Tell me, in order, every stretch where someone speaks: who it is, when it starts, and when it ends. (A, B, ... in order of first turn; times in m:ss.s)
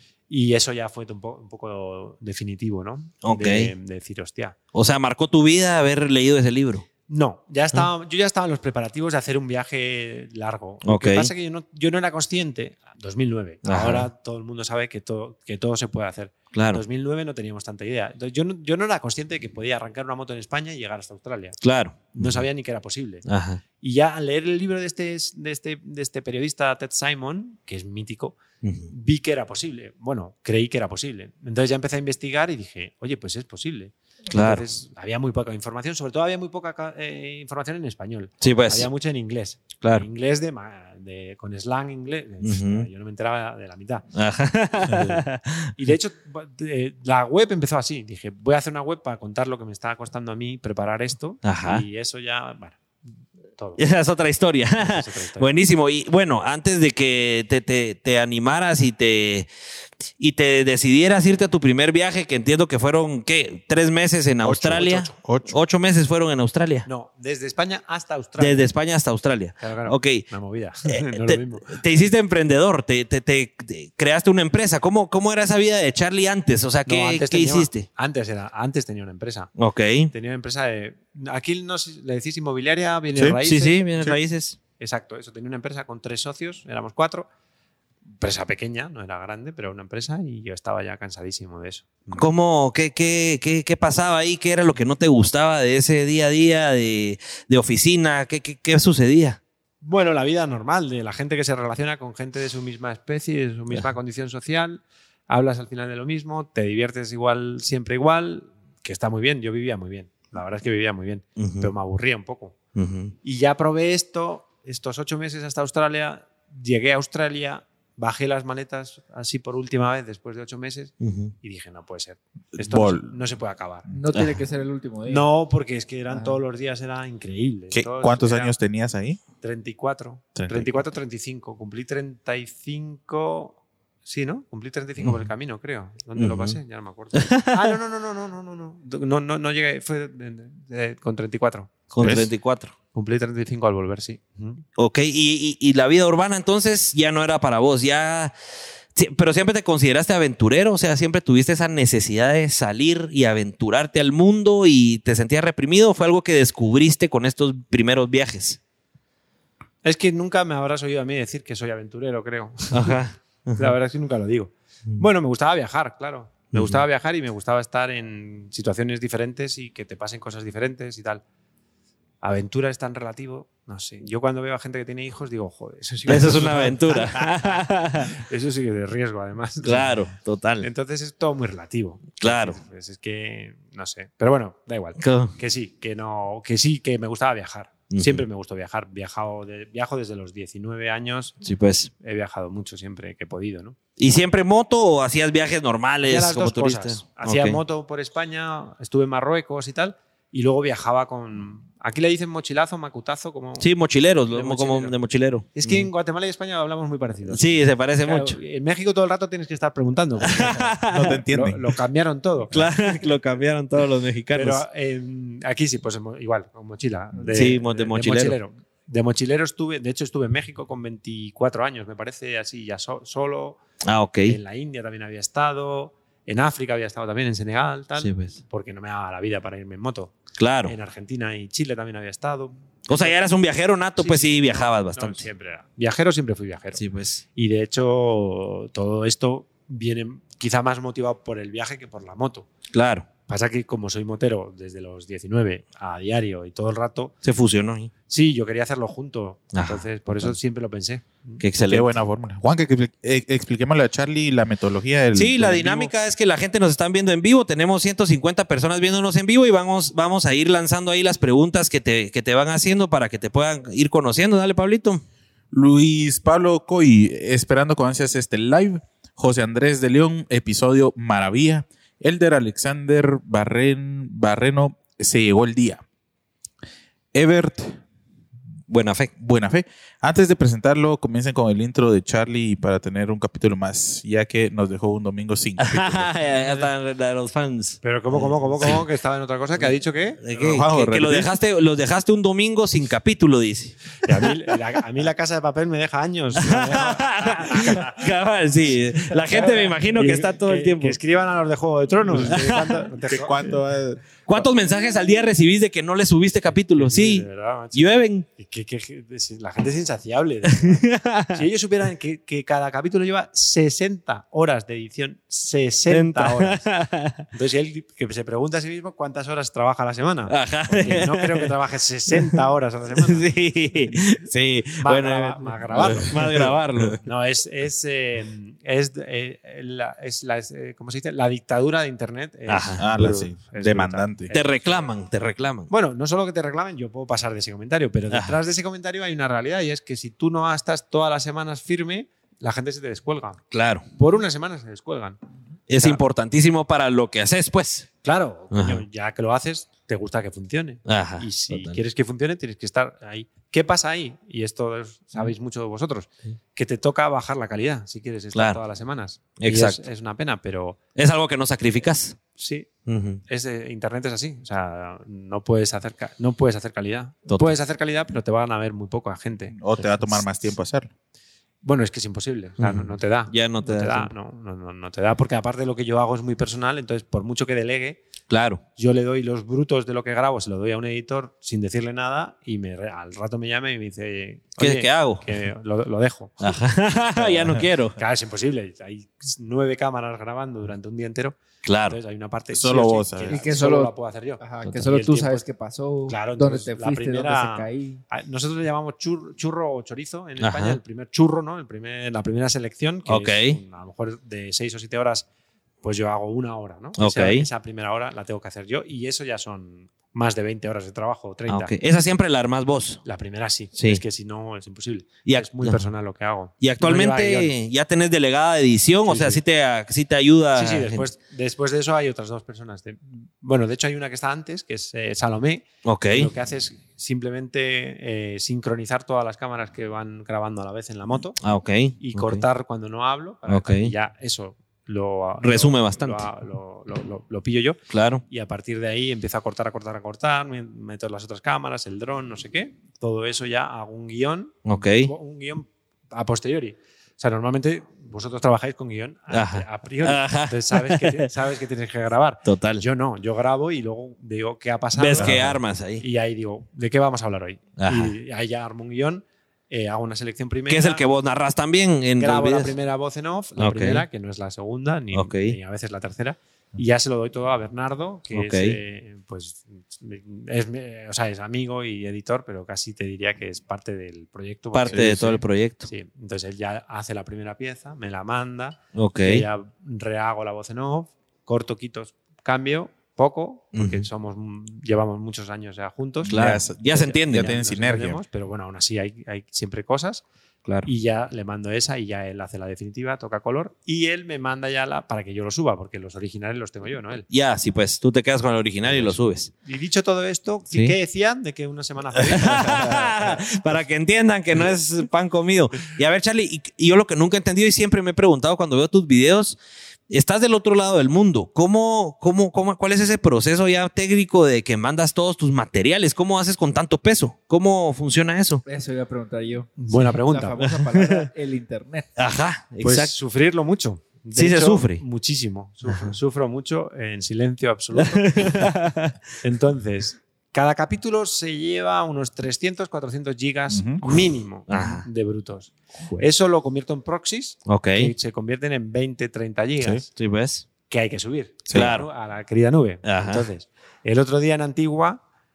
0:00.3-0:04.6 A
0:03.2-0:03.7 B
0:04.7-0:06.8 B
0:07.1-0:21.6 A
0:10.8-0:11.3 B
0:13.6-0:14.1 B
0:16.5-0:16.8 B
0:21.6-0:22.4 B
0:22.1-0:23.3 A
0:23.3-0:23.6 B
0:23.8-0:28.4 A
0:28.6-0:28.9 B
0:28.9-0:44.1 A
0:34.3-0:34.6 B
0:38.4-0:38.9 B
0:39.8-0:40.1 B
0:42.4-0:42.9 B
0:44.1-0:45.7 B
0:44.9-0:45.2 C
0:45.8-0:52.8 A
0:51.4-0:51.8 B
0:53.6-0:53.8 A
0:53.8-0:59.5 B
0:54.8-0:55.5 A
1:00.2-1:06.9 B
1:04.4-1:05.6 C
1:06.9-1:08.7 A
1:08.4-1:10.3 B
1:09.6-1:11.8 A
1:10.9-1:17.9 B
1:16.9-1:19.5 A
1:19.6-1:20.1 B
1:20.1-1:23.8 A
1:23.2-1:23.4 C
1:23.4-1:24.6 B
1:24.8-1:27.3 A
1:28.2-1:32.3 A
1:32.1-1:39.4 B
1:39.8-1:52.6 A
1:51.4-1:51.7 B
1:52.8-1:53.1 B
1:53.2-2:03.9 A
2:01.0-2:01.3 B
2:02.6-2:03.1 C
2:03.9-2:05.3 D
2:04.1-2:04.4 B
2:05.1-2:08.5 A
2:06.1-2:06.4 D
2:07.7-2:09.2 C
2:09.4-2:22.2 A
2:10.4-2:10.7 C
2:16.2-2:16.6 B
2:17.2-2:17.7 B
2:21.9-2:22.7 B
2:22.0-2:22.3 C
2:22.9-2:24.6 A
2:24.8-2:28.3 B
2:29.0-2:38.6 B
2:39.8-2:43.0 A
2:42.7-2:43.7 B
2:43.6-2:51.2 A
2:46.5-2:46.8 B
2:52.2-3:00.0 A
2:56.1-2:58.1 B
2:59.6-3:00.7 B
3:00.6-3:11.4 A
3:02.2-3:02.6 B
3:05.0-3:05.4 B
3:07.9-3:08.2 B
3:11.4-3:11.9 B
3:12.0-3:13.8 A
3:14.0-3:17.6 B
3:16.0-3:23.7 A
3:23.6-3:25.9 B
3:24.3-3:25.0 A
3:25.6-3:33.1 A
3:27.3-3:28.4 B
3:30.3-3:31.2 B
3:30.9-3:31.8 C
3:32.5-3:34.6 B
3:34.3-3:43.6 A
3:37.3-3:38.4 B
3:43.8-3:44.4 B
3:44.3-3:53.2 A
3:48.0-3:48.4 B
3:50.4-3:50.7 B
3:52.9-3:55.2 B
3:54.0-3:56.8 A
3:56.8-3:57.2 B
3:57.4-4:02.5 A
4:02.7-4:03.1 B
4:03.3-4:07.2 A
4:07.2-4:07.9 B
4:08.1-4:11.4 A
4:09.5-4:09.8 B
4:11.4-4:11.9 B
4:11.7-4:15.9 C
4:15.2-4:25.0 B
4:25.5-4:35.8 C
4:37.1-4:37.8 C
4:38.7-4:39.1 B
4:39.2-4:46.2 C
4:45.6-4:48.8 B
4:47.8-4:50.6 A
4:50.2-4:54.3 B
4:50.4-4:51.3 C
4:54.0-4:58.1 A
4:56.4-5:01.0 B
4:59.0-5:03.4 A
5:02.2-5:02.8 B
5:02.2-5:04.4 C
5:04.3-5:08.3 B
5:06.8-5:16.7 A
5:10.6-5:11.4 B
5:15.9-5:17.2 B
5:17.3-5:23.3 A
5:20.3-5:21.5 B
5:23.0-5:27.0 B
5:24.8-5:26.5 A
5:25.9-5:27.0 C
5:27.0-5:34.9 A
5:32.5-5:32.8 B
5:32.8-5:34.3 C
5:34.3-5:35.7 B
5:35.7-5:45.2 A
5:38.1-5:38.4 B
5:43.5-5:43.8 B
5:45.7-5:47.9 B
5:48.0-6:00.8 A
5:48.5-5:48.8 B
5:50.9-5:51.8 B
5:58.3-5:58.6 B
5:59.4-5:59.8 B
6:01.0-6:02.2 B
6:02.4-6:02.7 A
6:02.9-6:03.2 B
6:03.3-6:10.2 A
6:07.3-6:07.6 B
6:09.5-6:10.9 C
6:11.6-6:18.0 A
6:12.6-6:14.1 B
6:18.3-6:18.6 B
6:18.8-6:26.6 A
6:24.6-6:25.2 B
6:26.4-6:28.0 B
6:27.2-6:31.4 A
6:31.6-6:32.0 B
6:31.9-6:35.4 A
6:32.5-6:33.4 C
6:33.3-6:38.0 D
6:36.1-6:45.3 A
6:40.4-6:40.8 B
6:43.1-6:43.6 B
6:45.8-6:51.7 A
6:47.0-6:47.5 B
6:51.5-6:53.0 B
6:53.0-6:57.5 A
6:53.8-6:54.0 B
6:55.3-6:55.8 B
6:56.6-7:01.1 B
6:59.1-6:59.4 A
7:00.6-7:11.4 A
7:05.8-7:06.3 B
7:11.4-7:12.4 B
7:12.0-7:41.0 A
7:13.5-7:13.9 B
7:15.4-7:16.3 B
7:17.9-7:18.2 B
7:24.7-7:25.1 B
7:29.3-7:31.3 B
7:32.5-7:32.8 B
7:35.0-7:36.0 B
7:37.8-7:38.1 B
7:40.7-7:42.7 B
7:42.2-8:10.2 A
7:43.6-7:44.0 B
7:45.1-7:45.6 B
7:48.3-7:48.8 B
7:54.7-7:55.9 B
7:59.0-7:59.4 B
8:03.7-8:04.1 B
8:06.2-8:07.5 B
8:06.3-8:08.2 C
8:10.8-8:17.3 A
8:17.3-8:19.5 B
8:19.6-8:23.4 A
8:20.7-8:21.0 B
8:22.3-8:29.6 B
8:30.1-8:38.6 B
8:38.6-8:42.1 D
8:39.8-8:40.7 A
8:40.6-8:41.3 B
8:42.2-8:43.1 B
8:42.8-8:48.7 A
8:44.3-8:45.0 B
8:45.9-8:46.1 B
8:48.0-8:49.2 B
8:49.4-9:00.1 A
8:53.7-8:54.0 C
8:54.1-8:55.1 B
8:57.7-8:58.1 B
9:00.2-9:00.7 B
9:00.9-9:05.2 A
9:01.7-9:01.9 C
9:01.7-9:02.1 B
9:03.0-9:03.5 B